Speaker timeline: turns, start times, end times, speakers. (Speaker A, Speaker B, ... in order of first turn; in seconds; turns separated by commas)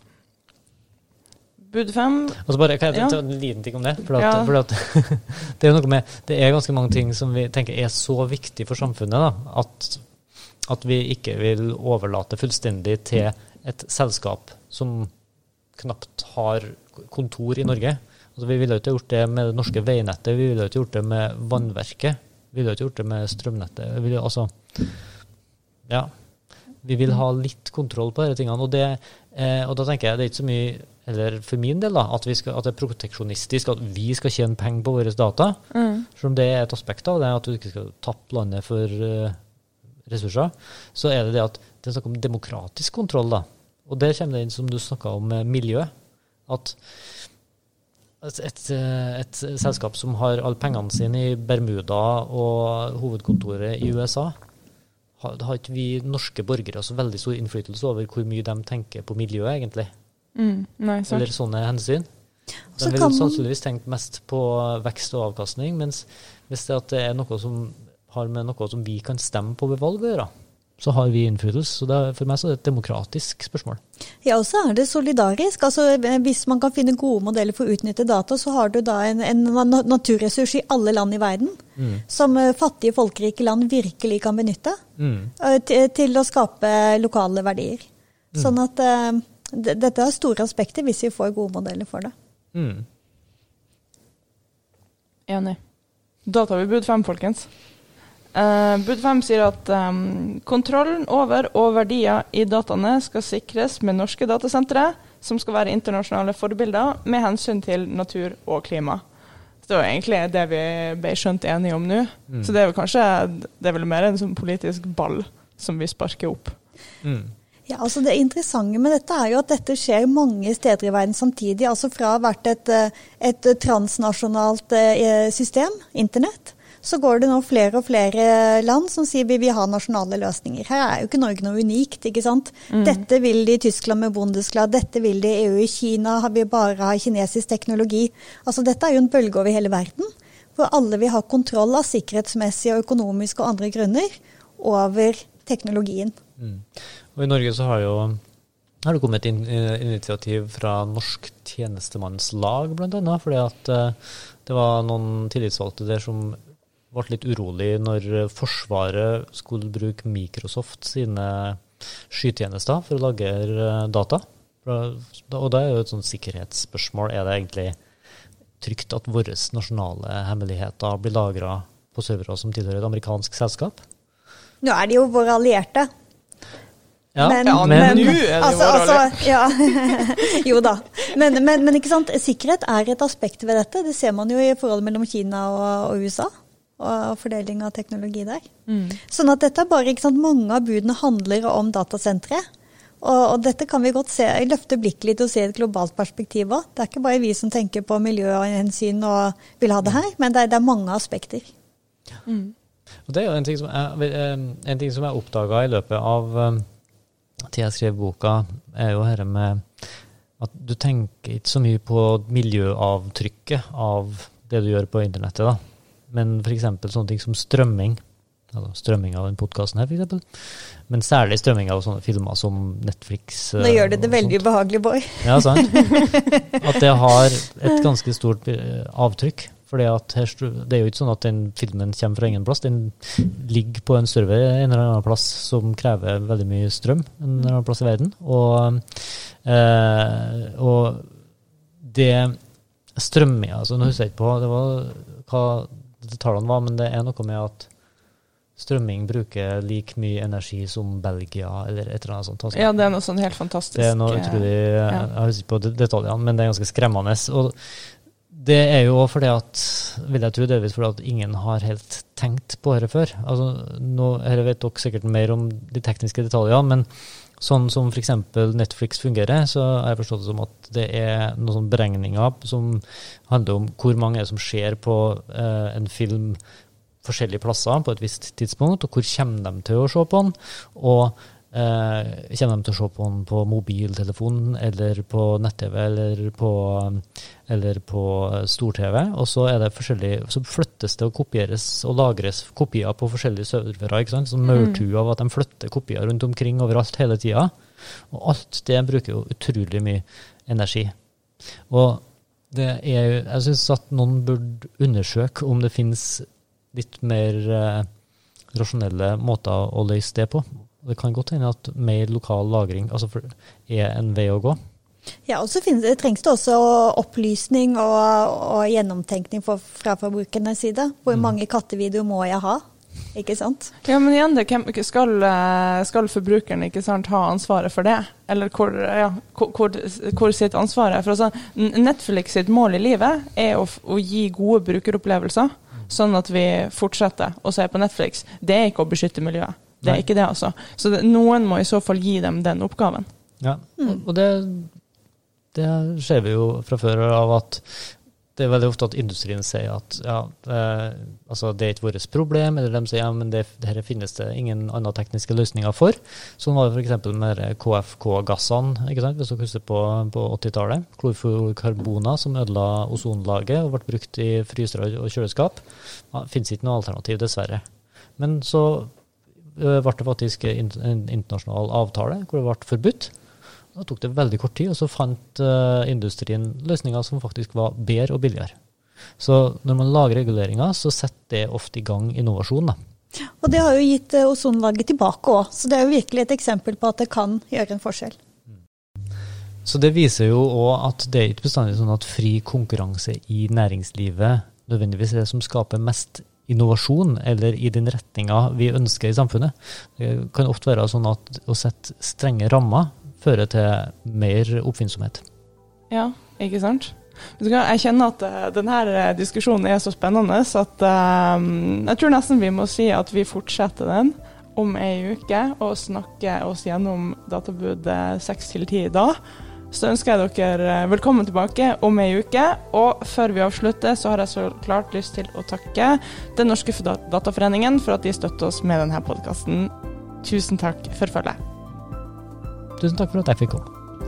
Speaker A: 1.6-3.2, Speaker B: 2.4-10.0, Speaker A: 4.2-4.5, Speaker B: 10.6-15.1, Speaker B: 15.8-25.1, Speaker B: 25.9-26.1, Speaker B: 26.8-39.4, Speaker A: 35.7-36.1, Speaker B: 40.1-45.9, Speaker B: 46.5-47.3, Speaker B: 48.2-54.4, Speaker B: 55.2-59.9, Speaker A: 60.4-61.2, Speaker B: 61.1-62.1, Speaker C: 62.8-63.4, Speaker B: 62.8-73.8, Speaker C: 74.2-84.8, Speaker B: 81.8-82.0, Speaker B: 85.0-85.3, Speaker C: 85.4-92.1, Speaker B: 92.5-92.9, Speaker A: 95.3-95.6, Speaker A: 96.2-97.6, Speaker A: 98.3-109.0, Speaker A: 109.6-116.6, Speaker B: 112.3-112.5, Speaker B: 117.0-117.3, Speaker C: 117.7-146.2, Speaker A: 132.7-133.0, Speaker B: 146.4-148.2, Speaker B: 148.8-156.4, Speaker B: 156.9-167.8, Speaker B: 168.6-173.8, Speaker C: 174.6-175.9, Speaker B: 177.2-178.2, Speaker C: 177.2-188.5, Speaker A: 177.4-180.3, Speaker A: 188.7-189.0, Speaker C: 189.0-192.4, Speaker C: 193.0-201.5, Speaker A: 202.3-202.5, Speaker B: 203.1-206.7, Speaker B: 207.5-224.4, Speaker C: 223.6-226.8, Speaker B: 225.2-241.1, Speaker B: 241.8-242.4, Speaker B: 243.0-247.7, Speaker B: 248.6-252.8, Speaker A: 252.5-255.1, Speaker B: 253.8-276.4, Speaker B: 277.0-300.9, Speaker A: 294.5-294.8, Speaker B: 301.7-307.9, Speaker B: 308.5-314.6, Speaker C: 315.3-323.7, Speaker A: 323.9-343.1, Speaker B: 343.4-344.7, Speaker B: 345.5-367.6, Speaker B: 368.2-368.9, Speaker B: 369.6-373.1, Speaker B: 373.8-378.6, Speaker B: 379.2-382.8, Speaker C: 383.4-388.2, Speaker B: 389.6-405.2, Speaker A: 405.9-419.2, Speaker A: 419.7-431.4, Speaker B: 432.8-433.7